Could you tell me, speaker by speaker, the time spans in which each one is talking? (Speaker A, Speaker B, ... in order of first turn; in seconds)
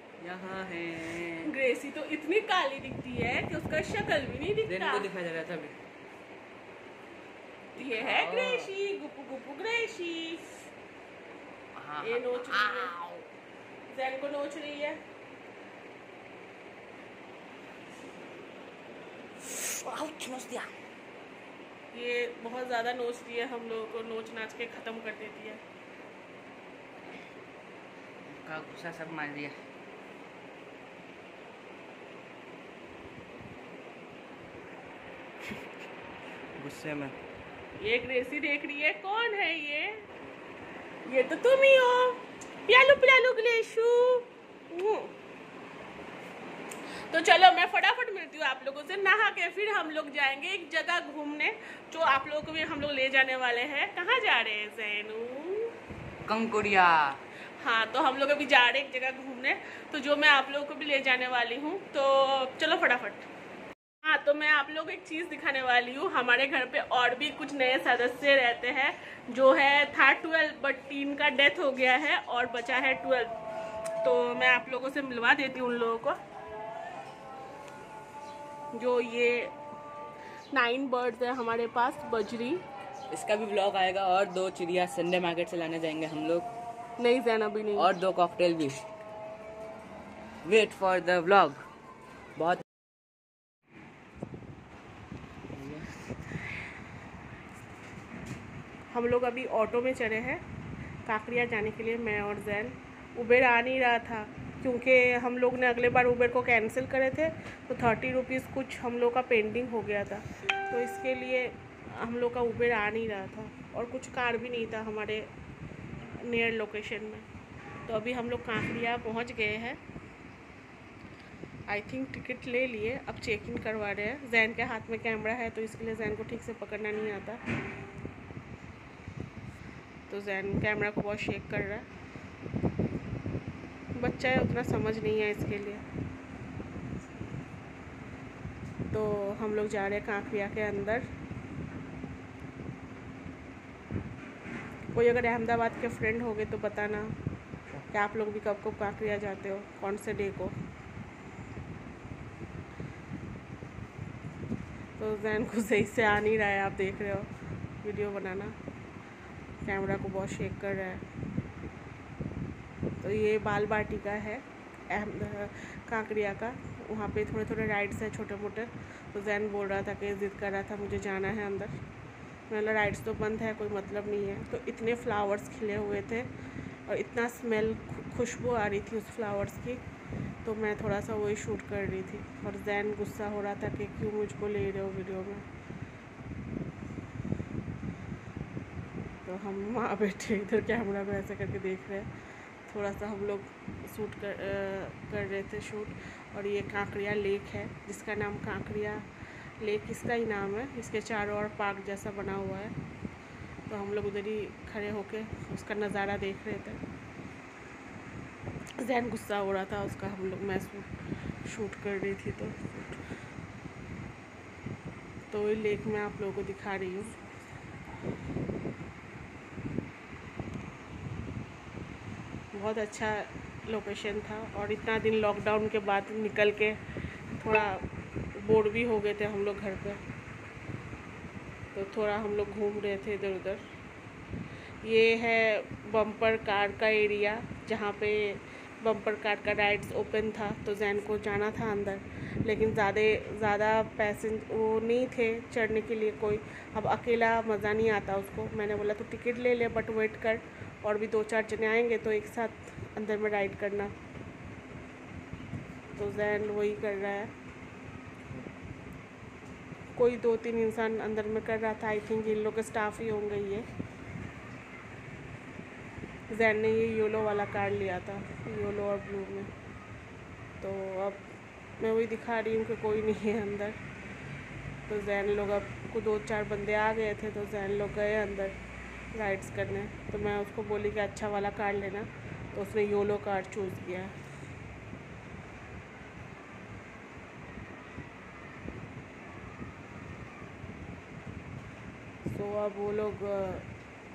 Speaker A: 0.2-1.5, 4.7-5.8, 7.8-8.7, 11.8-13.2, 19.4-20.7, 28.3-29.5, 36.6-37.2, 56.2-57.2, 83.1-86.5, 87.8-88.8, 90.4-91.6, 92.4-92.6, 95.5-96.0
Speaker B: 1.4-5.1, 7.8-10.6, 12.0-12.9, 13.9-15.0, 21.9-25.6, 37.8-40.0, 41.0-45.1, 47.1-55.8, 57.6-63.3, 64.0-73.3, 74.0-76.2, 78.7-79.5, 80.5-82.6, 87.0-87.9, 98.9-100.4, 101.0-115.3, 116.0-117.3, 117.9-119.8, 121.7-127.4, 130.1-131.9, 134.0-135.8, 138.9-141.1, 144.9-147.2, 147.9-150.6, 155.0-157.3, 157.8-158.6, 159.6-161.0, 163.0-171.8, 172.5-176.3, 176.9-179.8, 180.4-185.5, 189.2-192.1, 192.7-199.1, 199.6-202.8, 203.7-206.8, 208.8-213.1, 215.3-217.2, 222.5-226.8, 227.4-230.0, 231.7-233.6, 234.8-253.9, 255.9-257.3, 259.9-263.7, 266.3-269.5, 270.6-271.2, 271.8-273.8, 274.9-278.6, 279.1-284.1, 292.3-293.6